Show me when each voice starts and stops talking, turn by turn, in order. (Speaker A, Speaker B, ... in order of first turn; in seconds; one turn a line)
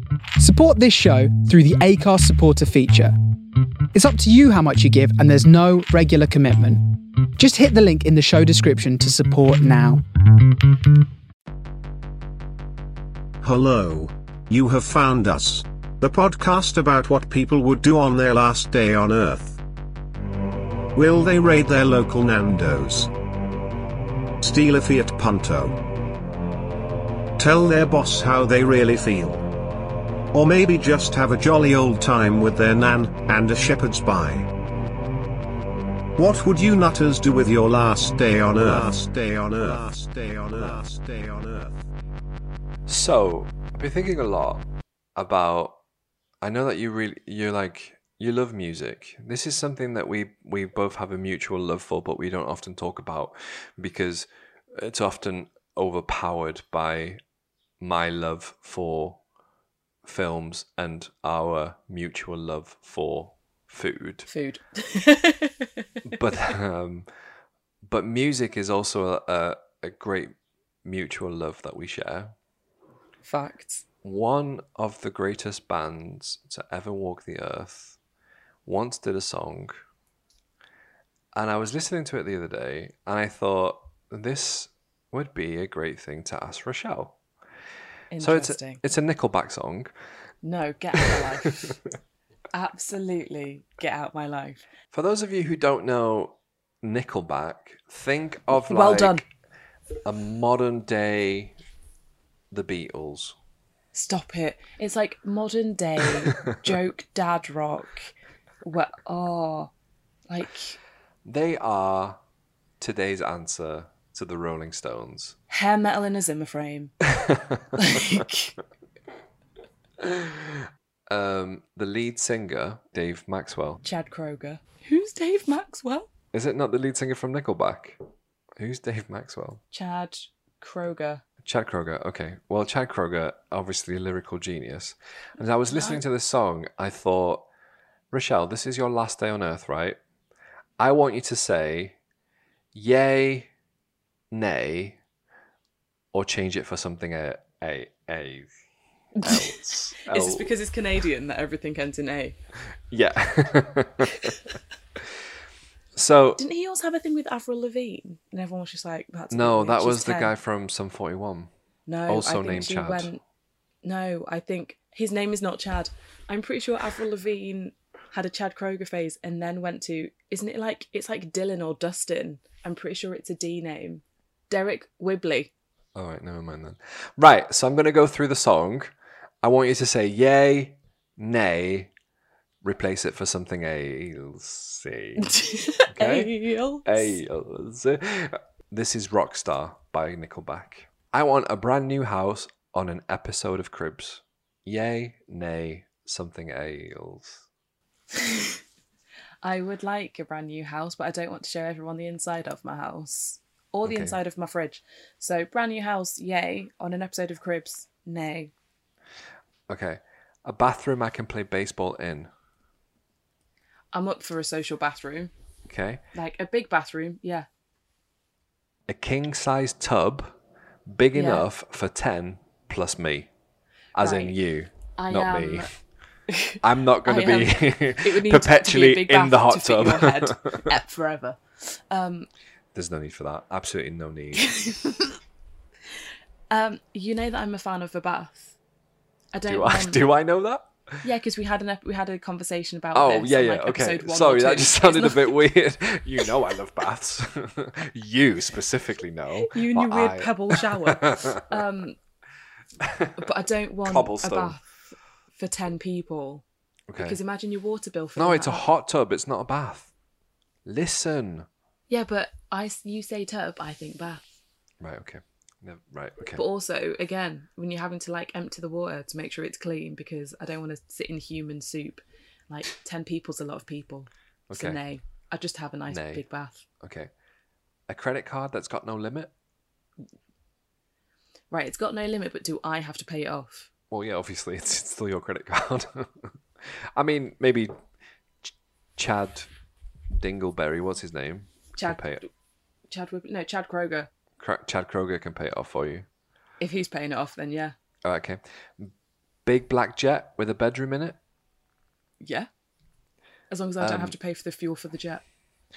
Speaker A: 0.3-3.1
Speaker A: 3.9-6.8
Speaker A: 7.4-10.0
Speaker B: 13.4-19.6
Speaker B: 20.9-23.1
Speaker B: 24.4-25.8
Speaker B: 27.4-29.4
Speaker B: 30.3-34.5
Speaker B: 36.1-41.8
Speaker C: 42.9-44.6
Speaker C: 45.1-45.8
Speaker C: 46.4-57.2
Speaker C: 57.8-59.2
Speaker C: 60.0-64.3
Speaker D: 64.3-65.7
Speaker C: 66.1-67.1
Speaker C: 67.8-72.3
Speaker D: 73.2-73.8
Speaker C: 74.0-78.0
Speaker C: 78.7-79.7
Speaker C: 81.3-87.2
Speaker D: 88.1-88.8
Speaker C: 88.2-89.9
Speaker D: 90.4-91.8
Speaker D: 92.5-94.7
Speaker C: 94.9-99.2
Speaker D: 98.5-99.2
Speaker C: 100.0-101.5
Speaker C: 102.5-103.3
Speaker D: 103.9-108.1
Speaker D: 108.6-109.7
Speaker D: 110.3-110.8
Speaker C: 111.2-112.2
Speaker C: 112.8-115.4
Speaker D: 115.5-116.9
Speaker C: 117.2-117.6
Speaker D: 117.8-118.5
Speaker C: 120.0-123.8
Speaker D: 123.8-126.1
Speaker C: 126.3-128.0
Speaker C: 128.6-129.6
Speaker D: 129.7-131.2
Speaker C: 131.4-137.5
Speaker D: 135.7-136.0
Speaker C: 138.1-140.0
Speaker C: 140.8-142.0
Speaker C: 142.7-143.5
Speaker C: 144.3-145.0
Speaker C: 146.1-148.5
Speaker D: 149.2-152.4
Speaker C: 149.2-150.5
Speaker C: 152.9-154.4
Speaker C: 155.9-156.4
Speaker D: 156.4-160.3
Speaker C: 159.3-161.5
Speaker D: 161.9-163.2
Speaker C: 162.1-163.1
Speaker D: 163.8-175.5
Speaker C: 175.9-181.9
Speaker C: 182.6-185.3
Speaker D: 185.2-187.1
Speaker C: 185.9-197.4
Speaker D: 199.4-208.5
Speaker C: 203.8-204.2
Speaker C: 209.7-212.3
Speaker D: 213.9-215.3
Speaker C: 215.7-216.0
Speaker D: 216.1-217.5
Speaker C: 218.9-220.4
Speaker C: 220.9-223.3
Speaker D: 221.1-221.4
Speaker C: 223.9-225.9
Speaker D: 224.0-232.3
Speaker C: 226.6-230.7
Speaker C: 232.7-234.6
Speaker D: 234.4-235.1
Speaker D: 236.5-238.6
Speaker D: 239.3-240.0
Speaker C: 239.5-241.0
Speaker D: 241.0-245.4
Speaker C: 242.9-251.4
Speaker D: 249.5-252.0
Speaker C: 252.8-253.2
Speaker D: 253.2-254.7
Speaker C: 253.8-254.6
Speaker D: 255.3-256.4
Speaker C: 256.9-257.2
Speaker D: 257.0-258.7
Speaker C: 258.1-259.9
Speaker C: 260.6-261.5
Speaker D: 261.9-264.2
Speaker C: 264.8-266.4
Speaker D: 266.3-276.6
Speaker C: 274.5-274.8
Speaker C: 275.9-276.2
Speaker C: 276.8-277.1
Speaker C: 277.9-279.3
Speaker D: 281.5-283.7
Speaker C: 283.9-287.7
Speaker C: 288.4-289.5
Speaker C: 290.1-292.2
Speaker D: 291.8-292.3
Speaker D: 292.9-294.1
Speaker C: 294.4-296.1
Speaker D: 296.6-297.7
Speaker C: 298.0-298.9
Speaker C: 299.4-301.2
Speaker D: 302.2-302.5
Speaker D: 303.5-305.2
Speaker C: 303.8-304.1